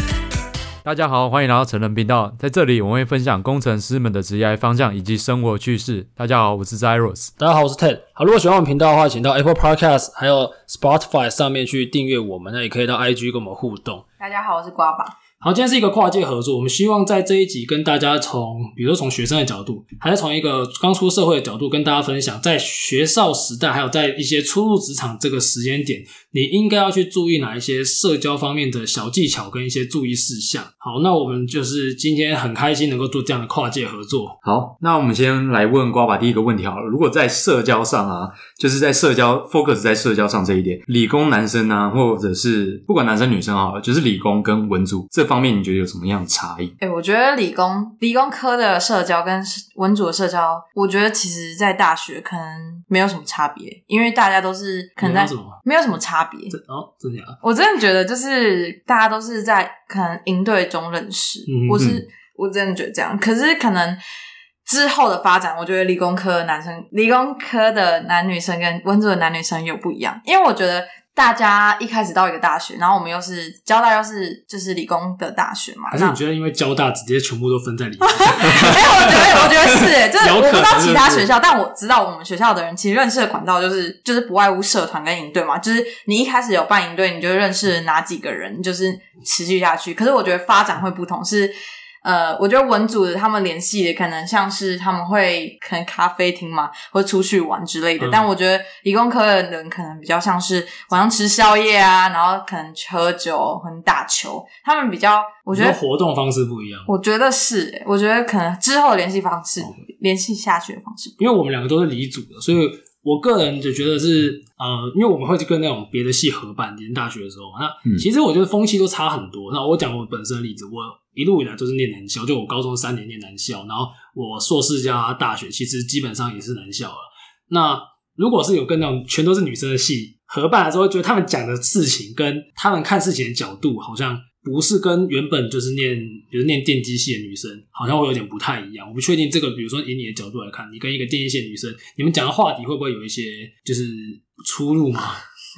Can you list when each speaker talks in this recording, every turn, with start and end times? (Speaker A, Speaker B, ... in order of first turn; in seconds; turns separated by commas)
Speaker A: 0.8-7.3, Speaker B: 7.4-14.0, Speaker C: 14.2-15.2, Speaker B: 15.4-34.4, Speaker A: 34.4-46.7, Speaker C: 46.8-56.6, Speaker B: 55.0-55.6, Speaker B: 56.5-57.4, Speaker C: 57.4-64.0, Speaker B: 61.5-61.8, Speaker C: 64.7-76.2, Speaker B: 75.9-81.3, Speaker C: 78.0-105.8, Speaker B: 98.0-98.2, Speaker B: 105.5-106.9, Speaker C: 106.9-111.2, Speaker B: 111.2-145.2